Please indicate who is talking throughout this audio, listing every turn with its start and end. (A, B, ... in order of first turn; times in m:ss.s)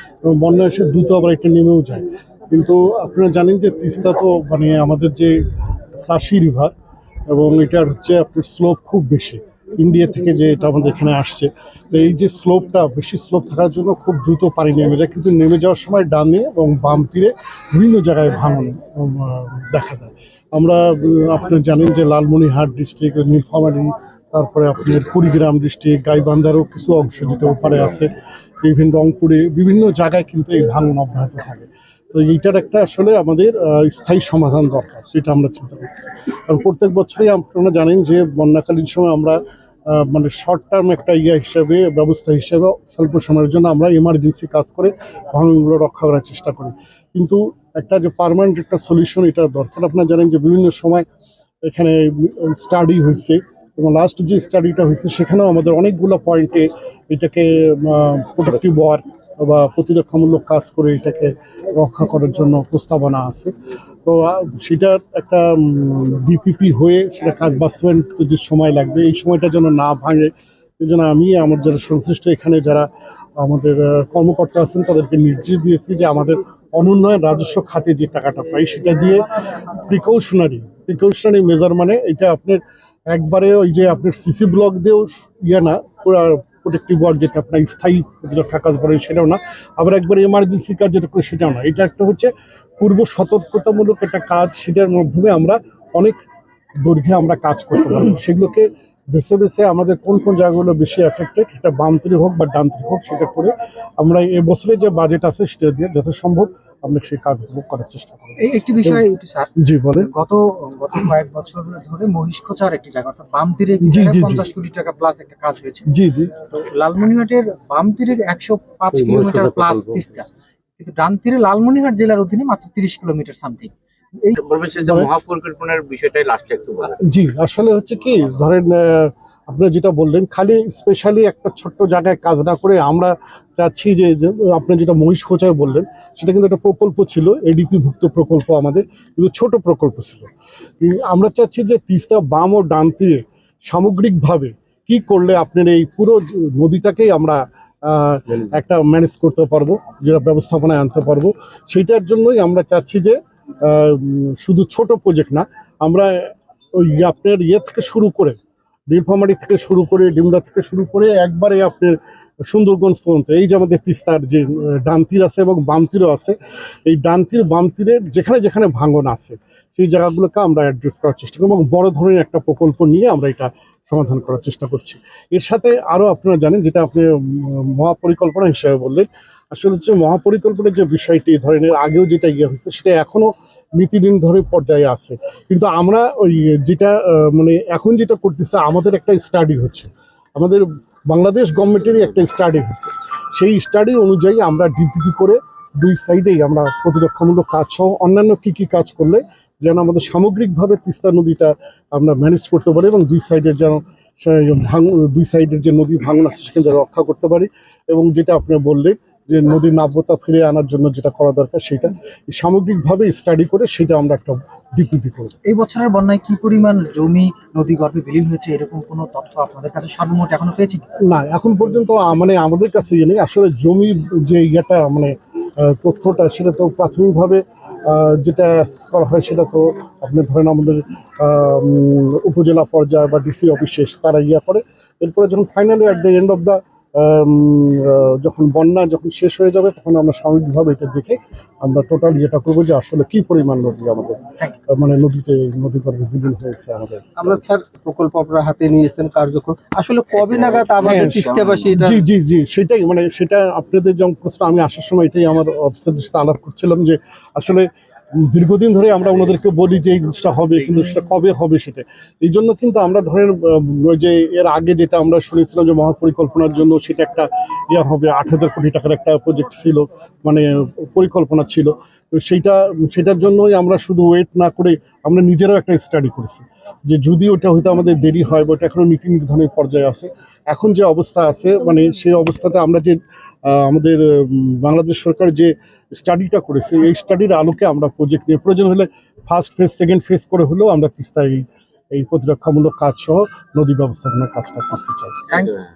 0:00.2-0:05.4 A
0:06.0-0:06.7 A
0:07.3-0:51.0 A
0:51.6-1:36.2 A
1:36.8-1:49.0 A
1:48.4-2:00.3 B
1:49.6-1:50.1 A
1:53.8-1:54.4 A
1:55.9-1:56.3 A
1:58.9-2:00.1 C
2:00.8-2:04.3 B
2:04.3-2:07.0 C
2:04.8-2:05.1 A
2:06.8-2:38.4 A
2:38.9-3:35.4 A
3:35.4-3:40.8 B
3:41.0-4:07.4 A
4:07.2-4:12.0 D
4:10.1-4:11.7 C
4:10.8-4:55.3 A
4:55.3-4:55.6 B